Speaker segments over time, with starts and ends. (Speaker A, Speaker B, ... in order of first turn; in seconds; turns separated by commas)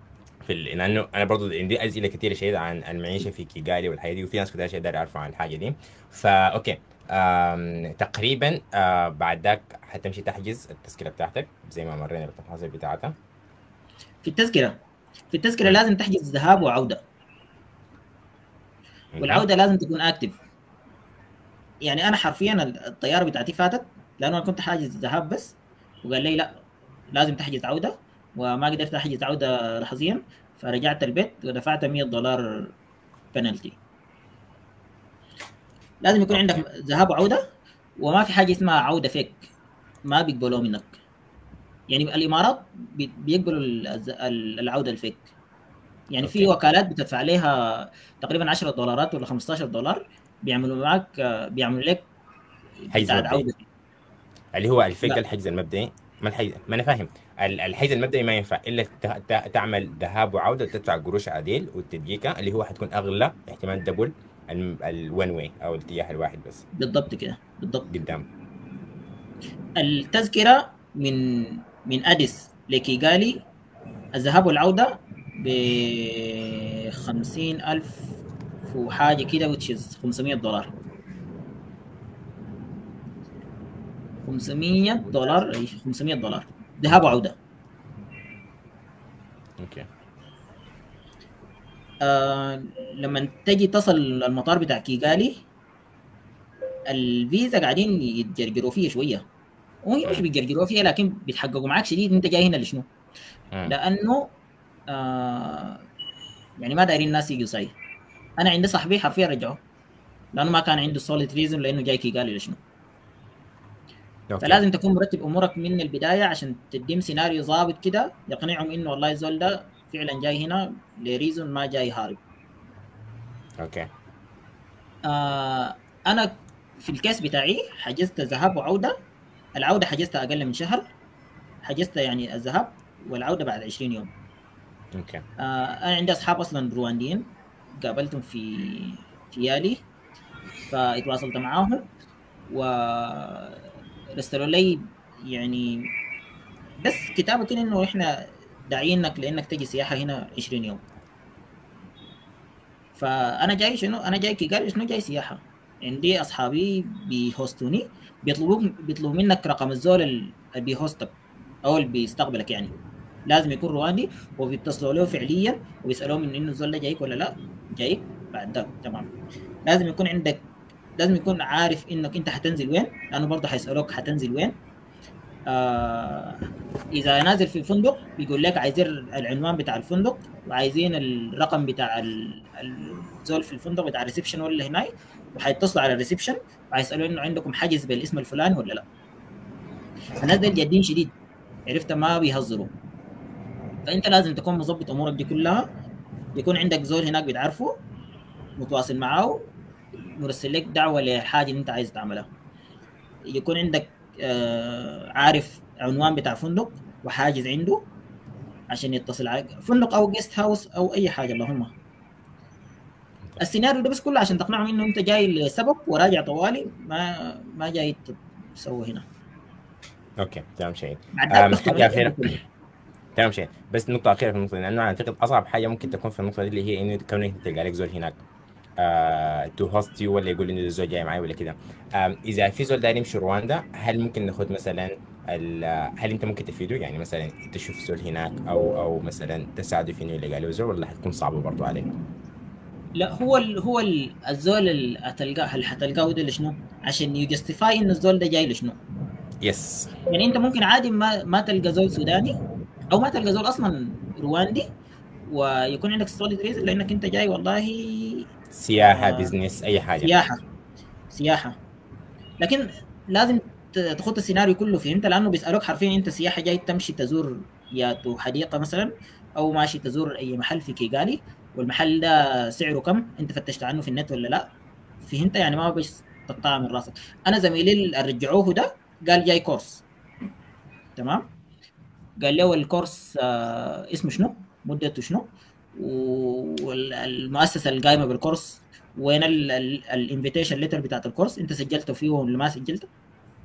Speaker A: 0.5-13.2, Speaker B: 14.2-14.8, Speaker B: 15.3-17.0, Speaker A: 19.1-19.4, Speaker B: 19.2-20.4, Speaker B: 21.8-26.5, Speaker B: 27.1-32.7, Speaker B: 33.3-33.8, Speaker B: 36.0-37.4, Speaker A: 36.3-36.6, Speaker B: 38.0-39.4, Speaker B: 40.1-40.9, Speaker B: 41.9-45.2, Speaker B: 46.1-52.1, Speaker A: 46.2-46.5, Speaker A: 52.9-53.5, Speaker B: 52.9-53.6, Speaker A: 54.5-66.6, Speaker B: 66.8-67.9, Speaker A: 67.9-68.3, Speaker B: 69.8-73.4, Speaker B: 74.2-78.1, Speaker B: 78.7-80.7, Speaker B: 84.2-87.4, Speaker A: 89.6-89.9, Speaker B: 92.0-95.4, Speaker B: 96.9-99.2, Speaker B: 99.8-102.9, Speaker B: 103.7-104.3, Speaker B: 104.9-105.8, Speaker B: 106.6-107.8, Speaker B: 108.4-109.6, Speaker B: 110.3-112.6, Speaker A: 114.3-114.6, Speaker B: 114.4-122.2, Speaker A: 123.6-123.9, Speaker B: 125.1-128.9, Speaker B: 129.6-130.9, Speaker B: 131.6-134.1, Speaker A: 134.9-135.2, Speaker B: 135.4-137.3, Speaker B: 137.8-139.8, Speaker B: 140.7-141.9, Speaker B: 142.5-143.6, Speaker B: 144.2-145.9, Speaker B: 146.8-150.8, Speaker B: 153.0-161.1, Speaker B: 161.7-162.8, Speaker B: 163.3-169.1, Speaker B: 169.7-170.4, Speaker B: 171.0-174.6, Speaker B: 175.5-176.4, Speaker B: 176.9-188.8, Speaker B: 190.2-191.1, Speaker B: 191.7-192.7, Speaker B: 193.9-195.7, Speaker B: 196.3-197.8, Speaker B: 198.6-199.4, Speaker B: 200.1-202.3, Speaker B: 203.3-207.8, Speaker B: 208.7-211.7, Speaker B: 213.4-219.1, Speaker A: 220.2-222.3, Speaker B: 221.2-222.4, Speaker A: 223.2-228.2, Speaker A: 228.8-241.9, Speaker B: 243.0-248.8, Speaker A: 249.4-249.9, Speaker B: 250.1-252.4, Speaker B: 252.9-254.7, Speaker B: 255.3-258.3, Speaker A: 258.5-260.1, Speaker B: 258.8-259.3, Speaker B: 260.0-260.4, Speaker B: 261.1-261.6, Speaker B: 262.4-274.5, Speaker B: 275.0-279.8, Speaker B: 281.0-281.3, Speaker B: 282.2-292.9